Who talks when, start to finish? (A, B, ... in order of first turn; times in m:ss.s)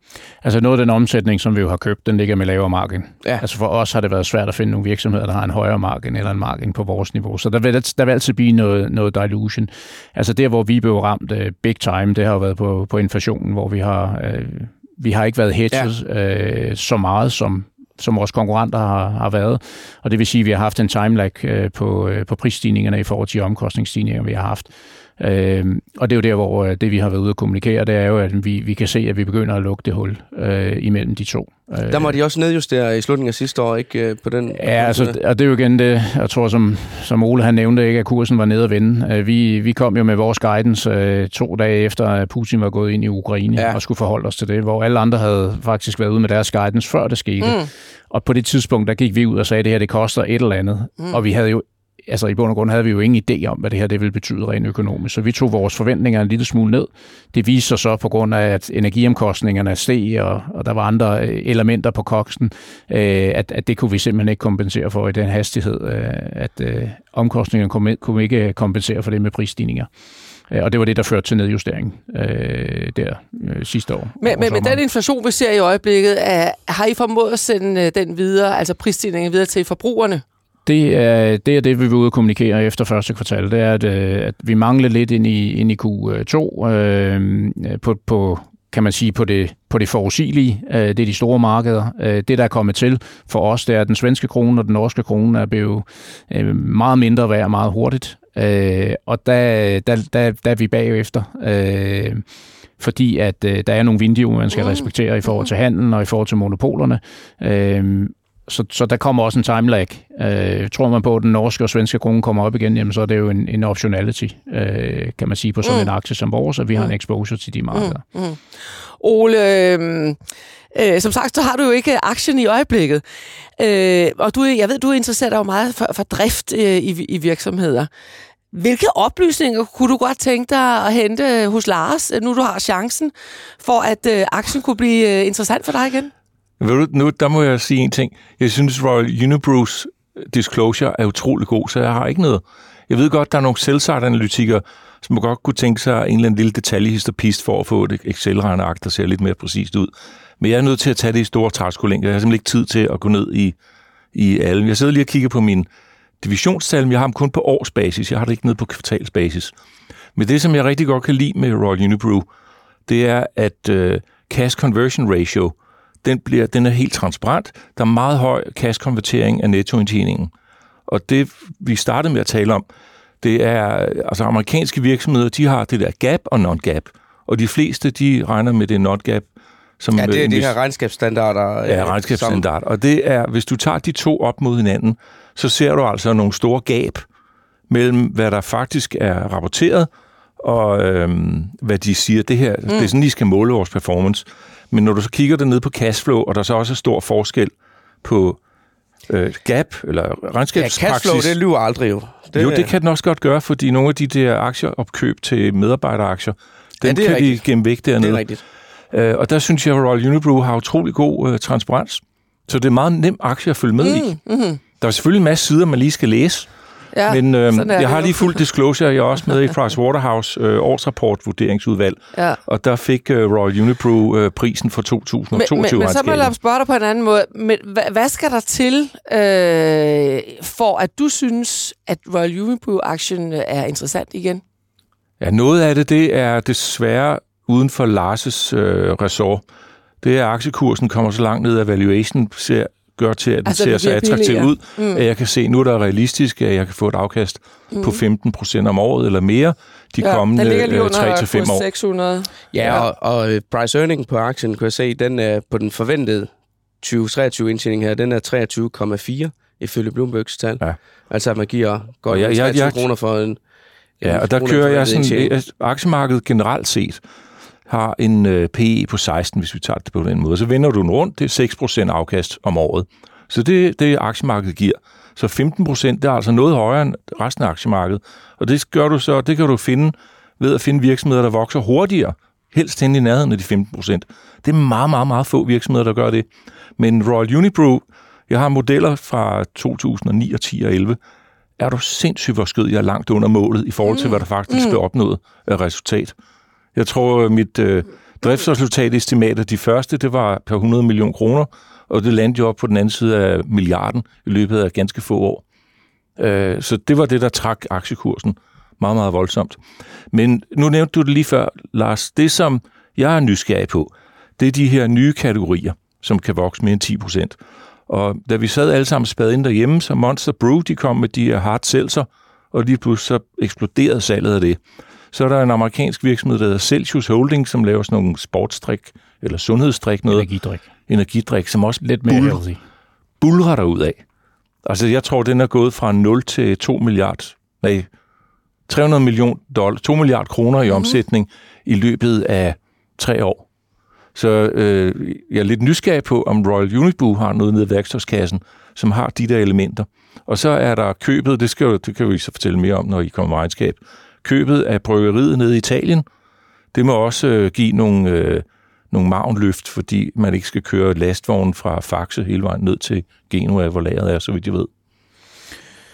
0:00.4-0:32.2 A
0:31.9-0:35.1 B
0:34.5-1:09.9 A
0:47.4-0:47.7 C
1:10.5-1:14.8 A
1:14.2-1:20.2 C
1:20.6-1:42.2 A
1:42.8-1:58.0 A
1:55.6-1:55.9 C
1:57.7-1:58.4 C
1:59.0-2:00.2 C
2:00.7-2:03.0 C
2:03.6-2:07.9 C
2:08.5-2:16.1 C
2:16.6-2:33.6 D
2:34.1-2:35.7 D
2:36.2-2:39.5 D
2:40.2-2:42.2 D
2:42.9-2:50.3 D
2:50.9-2:52.6 D
2:53.2-2:59.3 D
2:59.8-3:00.5 D
3:00.0-3:02.4 B
3:01.6-3:07.0 D
3:07.7-3:17.5 D
3:18.0-3:18.4 D
3:19.1-3:21.4 D
3:20.5-3:22.7 B
3:22.4-3:28.2 D
3:26.8-3:27.4 B
3:28.0-3:28.4 B
3:28.9-3:34.2 D
3:33.8-3:34.6 C
3:34.8-3:36.5 D
3:36.9-3:38.3 C
3:37.1-3:46.3 D
3:42.1-3:42.4 C
3:45.3-3:54.4 C
3:55.2-3:59.4 D
4:00.0-4:11.6 D
4:03.4-4:05.0 C
4:07.7-4:08.0 C
4:10.0-4:12.9 C
4:12.5-4:23.4 B
4:22.1-4:22.8 D
4:24.0-4:25.3 B
4:24.0-4:27.0 D
4:27.7-4:46.2 D
4:46.8-4:51.0 D
4:51.6-4:56.2 D
4:53.9-4:54.8 C
4:56.7-5:05.4 D
5:06.2-5:09.6 D
5:10.1-5:17.4 D
5:17.9-5:24.6 D
5:25.1-5:30.3 D
5:30.1-5:30.6 A
5:30.9-5:32.4 D
5:31.8-5:32.6 A
5:33.2-5:34.0 D
5:34.6-5:37.9 D
5:38.7-5:43.4 D
5:44.1-5:56.0 D
5:56.7-6:04.7 D